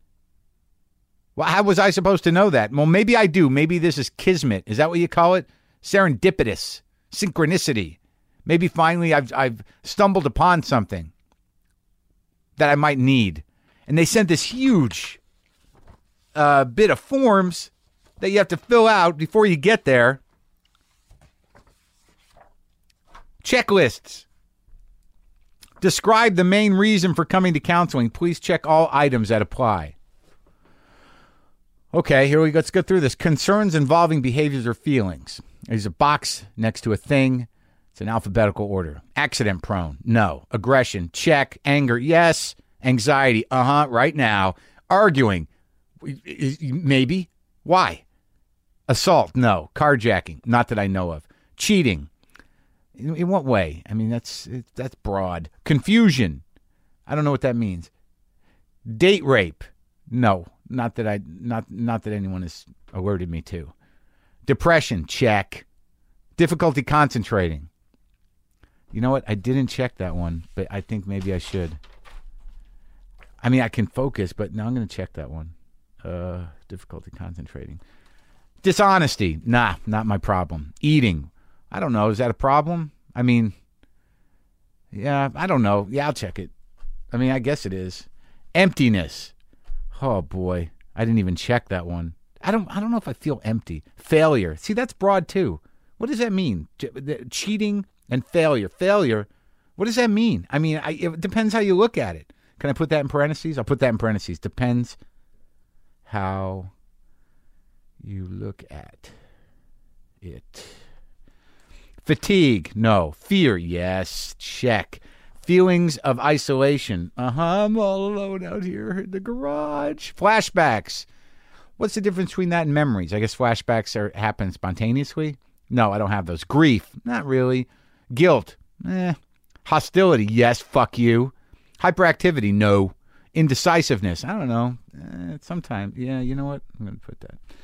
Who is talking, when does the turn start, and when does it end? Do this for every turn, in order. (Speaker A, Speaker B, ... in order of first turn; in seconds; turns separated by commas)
Speaker A: 1.4-11.1, Speaker A: 12.6-15.2, Speaker A: 16.3-20.2, Speaker A: 23.4-24.2, Speaker A: 25.8-29.9, Speaker A: 31.9-45.5, Speaker A: 46.0-48.0, Speaker A: 48.9-52.1, Speaker A: 53.0-56.4, Speaker A: 57.1-57.9, Speaker A: 58.9-63.7, Speaker A: 64.5-65.7, Speaker A: 66.4-67.7, Speaker A: 68.9-71.8, Speaker A: 73.4-77.8, Speaker A: 78.6-83.5, Speaker A: 84.9-86.5, Speaker A: 87.1-89.3, Speaker A: 89.9-105.0, Speaker A: 106.1-106.7, Speaker A: 108.0-109.1, Speaker A: 110.2-110.8, Speaker A: 112.0-121.0, Speaker A: 121.8-137.4